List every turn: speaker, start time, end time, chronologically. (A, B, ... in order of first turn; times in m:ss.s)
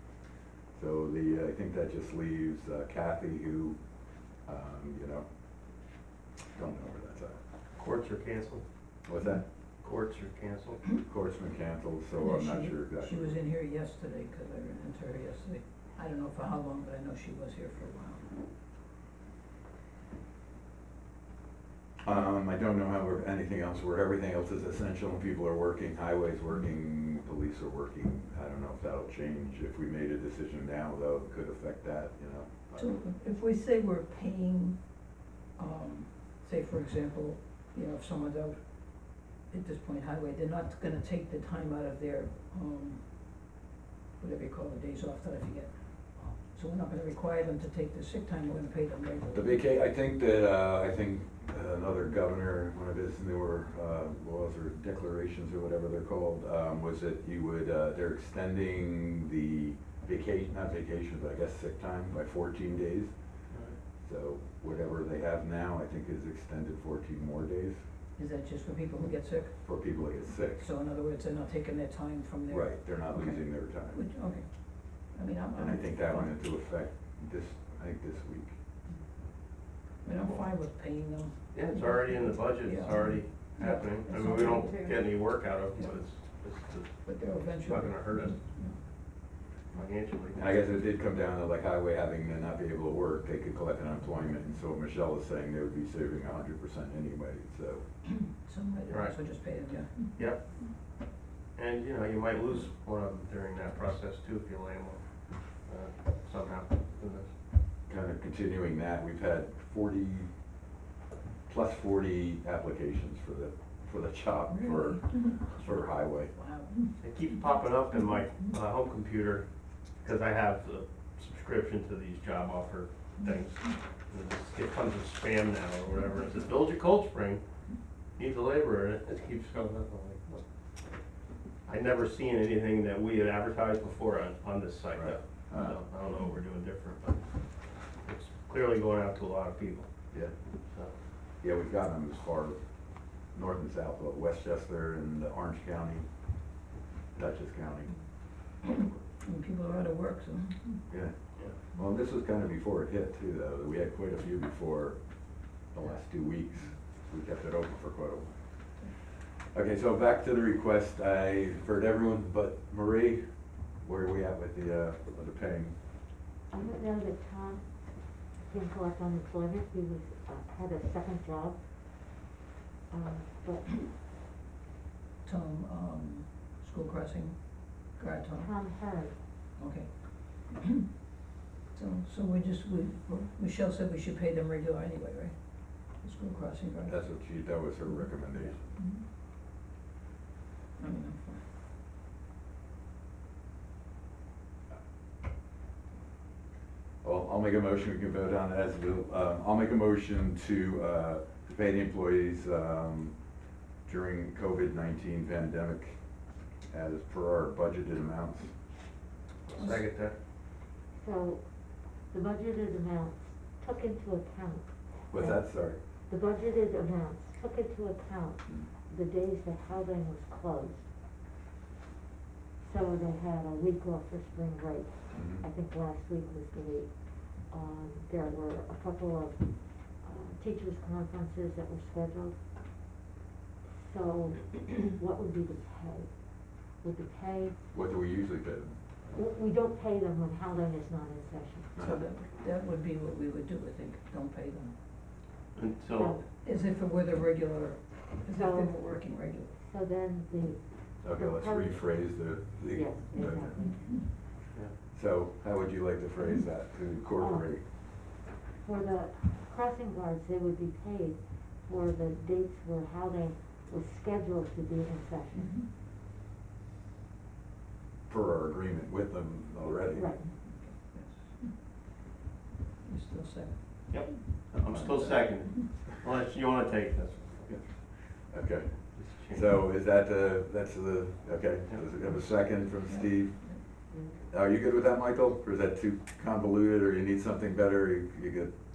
0:00.7-0:03.8 A
0:04.4-0:05.2 A
0:06.5-0:07.4 A
0:07.8-0:08.6 B
0:09.0-0:09.4 A
0:09.8-0:10.8 B
0:11.0-0:13.4 A
0:12.2-0:18.2 C
0:22.0-0:32.9 A
0:32.8-0:34.8 C
0:35.6-0:38.6 C
0:39.5-0:43.0 C
0:44.2-0:49.6 C
0:49.3-1:03.1 A
1:03.5-1:03.8 B
1:04.0-1:07.8 A
1:08.2-1:10.0 C
1:09.6-1:10.6 A
1:10.5-1:16.3 C
1:12.5-1:14.0 A
1:15.6-1:18.6 A
1:20.0-1:25.0 C
1:21.5-1:27.0 B
1:27.0-1:28.8 C
1:27.6-1:28.4 B
1:29.7-1:30.4 B
1:30.3-1:37.8 A
1:38.1-1:40.1 C
1:38.9-1:39.1 B
1:40.2-1:40.4 B
1:41.5-1:45.0 B
1:45.6-1:47.3 B
1:47.9-1:50.3 A
1:51.5-1:56.3 A
1:54.5-1:55.6 C
1:56.3-1:56.9 C
1:57.0-1:59.4 B
2:00.0-2:07.4 B
2:03.2-2:03.7 C
2:08.2-2:10.4 B
2:11.6-2:17.2 B
2:14.9-2:15.8 A
2:18.0-2:19.9 B
2:20.6-2:20.9 B
2:21.4-2:22.6 A
2:23.3-2:26.0 A
2:27.1-2:28.0 A
2:29.2-2:30.9 C
2:30.9-2:35.0 A
2:35.7-2:38.3 A
2:38.9-2:45.7 A
2:46.5-2:52.2 D
2:52.9-2:53.7 D
2:55.2-2:58.5 C
2:58.4-2:59.2 D
2:59.6-3:00.8 C
3:01.7-3:07.6 C
3:06.8-3:08.7 A
3:08.8-3:09.0 C
3:10.8-3:11.4 C
3:17.0-3:23.2 A
3:23.8-3:26.0 A
3:26.7-3:28.5 A
3:29.5-3:30.1 B
3:29.6-3:29.8 C
3:30.9-3:40.9 D
3:35.1-3:35.8 A
3:42.6-3:52.4 D
3:45.1-3:45.4 A
3:53.7-3:57.6 D
3:57.7-3:58.8 A
3:59.1-4:01.7 D
4:01.8-4:02.0 A
4:01.8-4:04.8 C
4:05.5-4:06.2 B
4:05.9-4:06.2 D
4:06.3-4:09.5 C
4:08.3-4:12.0 D
4:11.0-4:13.5 A
4:12.7-4:14.0 D
4:13.2-4:14.0 C
4:14.9-4:17.6 A
4:17.2-4:25.6 D
4:25.3-4:25.7 C
4:28.1-4:30.1 A
4:29.9-4:30.3 D
4:30.3-4:31.6 C
4:32.8-4:35.8 C
4:33.9-4:37.5 B
4:34.5-4:34.8 A
4:37.4-4:43.5 A
4:38.9-4:39.5 B
4:42.1-4:43.6 C
4:43.9-4:44.2 D
4:44.3-4:48.5 A